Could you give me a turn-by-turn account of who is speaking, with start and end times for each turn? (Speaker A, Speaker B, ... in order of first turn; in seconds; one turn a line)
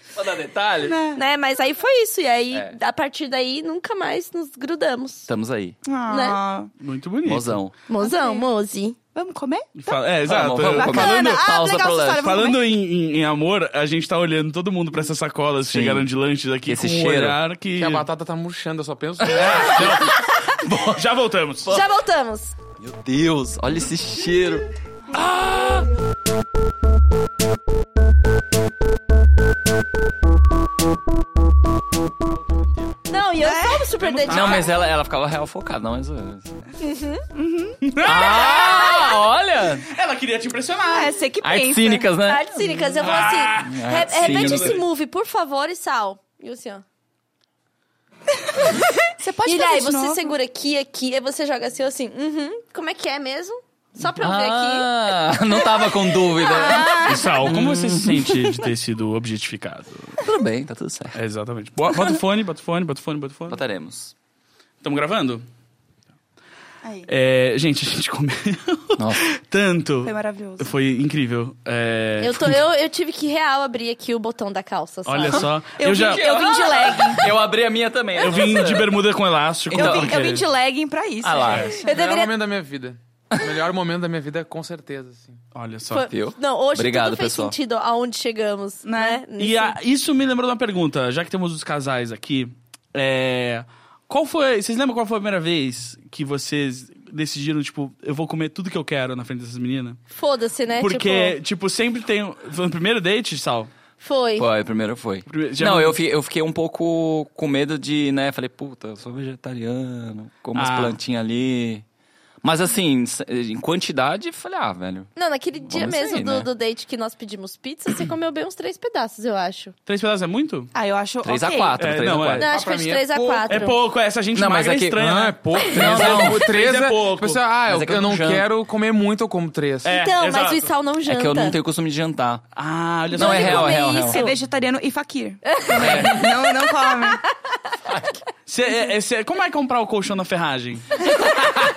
Speaker A: 0.1-1.0
Speaker B: 0.8-1.2
Speaker C: 1.1-5.3
Speaker A: 5.3-5.8
Speaker B: 5.8-6.7
Speaker C: 6.1-6.4
Speaker D: 6.8-7.6
Speaker A: 7.2-7.8
Speaker C: 7.9-9.0
Speaker B: 8.0-8.5
Speaker B: 9.1-12.6
Speaker D: 9.8-11.4
Speaker A: 10.3-12.4
Speaker D: 12.2-18.1
Speaker A: 15.7-16.1
Speaker A: 16.7-17.4
Speaker E: 17.8-19.9
Speaker D: 19.3-20.2
Speaker A: 19.6-21.0
Speaker D: 20.9-21.8
Speaker C: 21.7-22.5
Speaker A: 22.8-25.9
Speaker C: 33.1-34.7
Speaker B: 33.4-33.9
Speaker D: 34.0-34.7
Speaker A: 34.3-36.5
Speaker C: 36.8-37.2
Speaker B: 37.4-37.9
Speaker D: 37.8-38.5
Speaker A: 38.0-39.9
Speaker C: 38.5-39.2
Speaker D: 39.9-41.2
Speaker B: 40.9-42.1
Speaker A: 41.4-42.5
Speaker C: 42.2-46.8
Speaker D: 43.0-44.8
Speaker A: 43.6-44.8
Speaker B: 49.2-50.3
Speaker C: 49.5-54.9
Speaker A: 54.2-58.6
Speaker B: 56.4-57.4
Speaker D: 57.0-60.2
Speaker A: 60.2-61.2
Speaker D: 61.1-63.6
Speaker A: 63.5-64.1
Speaker D: 64.8-65.5
Speaker B: 66.8-67.1
Speaker D: 67.1-72.5
Speaker A: 69.0-69.2
Speaker B: 70.0-70.7
Speaker C: 72.2-75.5
Speaker D: 75.1-76.2
Speaker B: 75.8-77.3
Speaker A: 76.0-79.0
Speaker D: 78.2-80.4
Speaker A: 79.7-80.3
Speaker B: 79.7-81.7
Speaker A: 81.2-81.8
Speaker D: 81.5-81.8
Speaker C: 81.8-82.3
Speaker E: 81.8-85.4
Speaker D: 85.5-86.1
Speaker C: 85.9-89.8
Speaker A: 86.1-87.6
Speaker B: 88.8-89.2
Speaker D: 89.4-100.0
Speaker C: 100.1-101.4
Speaker D: 100.8-103.7
Speaker C: 104.0-104.5
Speaker A: 104.4-111.8
Speaker D: 105.3-106.0
Speaker D: 110.5-111.0
Speaker A: 112.4-115.1
Speaker C: 115.2-119.7
Speaker A: 115.6-116.5
Speaker D: 119.9-120.7
Speaker B: 120.7-121.9
Speaker A: 121.2-122.5
Speaker D: 121.8-122.5
Speaker C: 122.4-123.8
Speaker E: 122.4-123.7
Speaker D: 123.5-127.4
Speaker A: 124.3-125.0
Speaker E: 125.0-130.0
Speaker A: 125.7-126.4
Speaker A: 127.7-128.5
Speaker D: 129.8-130.7
Speaker C: 129.9-131.6
Speaker A: 131.0-132.4
Speaker D: 132.6-133.8
Speaker A: 133.1-134.3
Speaker C: 133.2-134.3
Speaker B: 133.2-137.2
Speaker C: 135.5-136.1
Speaker A: 135.8-136.3
Speaker D: 138.5-141.0